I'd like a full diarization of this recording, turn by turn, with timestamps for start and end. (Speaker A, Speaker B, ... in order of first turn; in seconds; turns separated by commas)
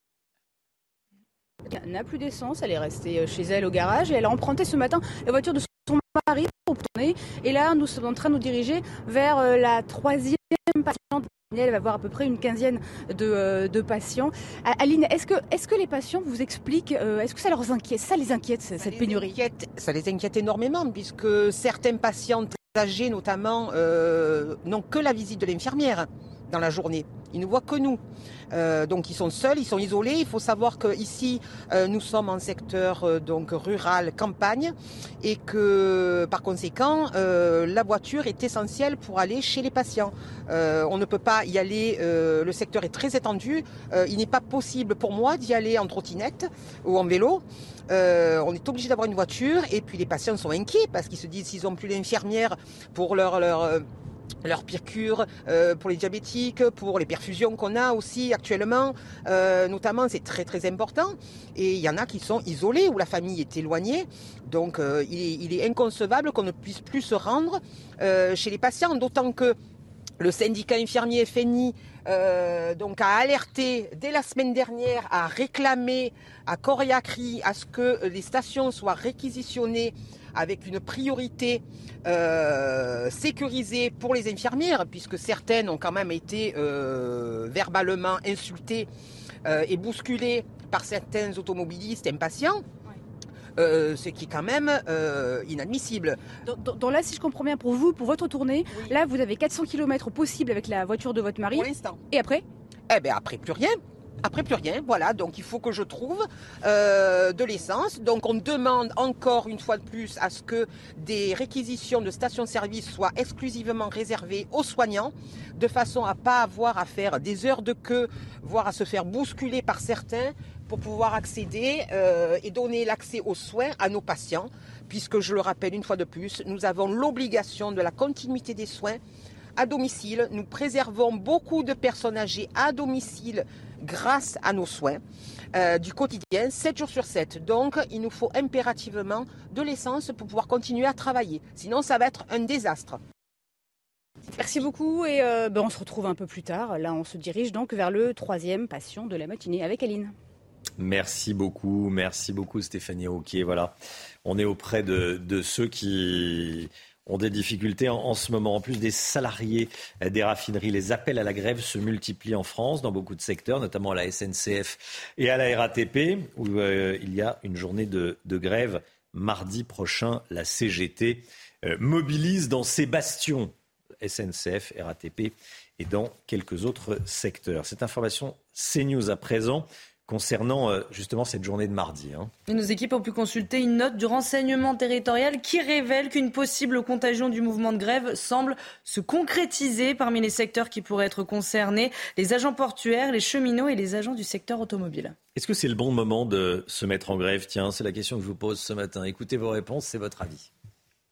Speaker A: 1.6-19.4, Speaker B: 18.8-53.9, Speaker B: 54.4-69.6, Speaker B: 70.2-88.9, Speaker B: 89.5-92.6, Speaker B: 93.6-96.2, Speaker A: 96.5-102.4, Speaker B: 101.5-102.0, Speaker B: 102.9-129.0, Speaker B: 129.6-135.0, Speaker B: 135.5-143.0, Speaker A: 144.4-150.1, Speaker C: 150.8-153.7, Speaker C: 154.2-182.3, Speaker D: 182.5-195.2, Speaker C: 195.4-200.5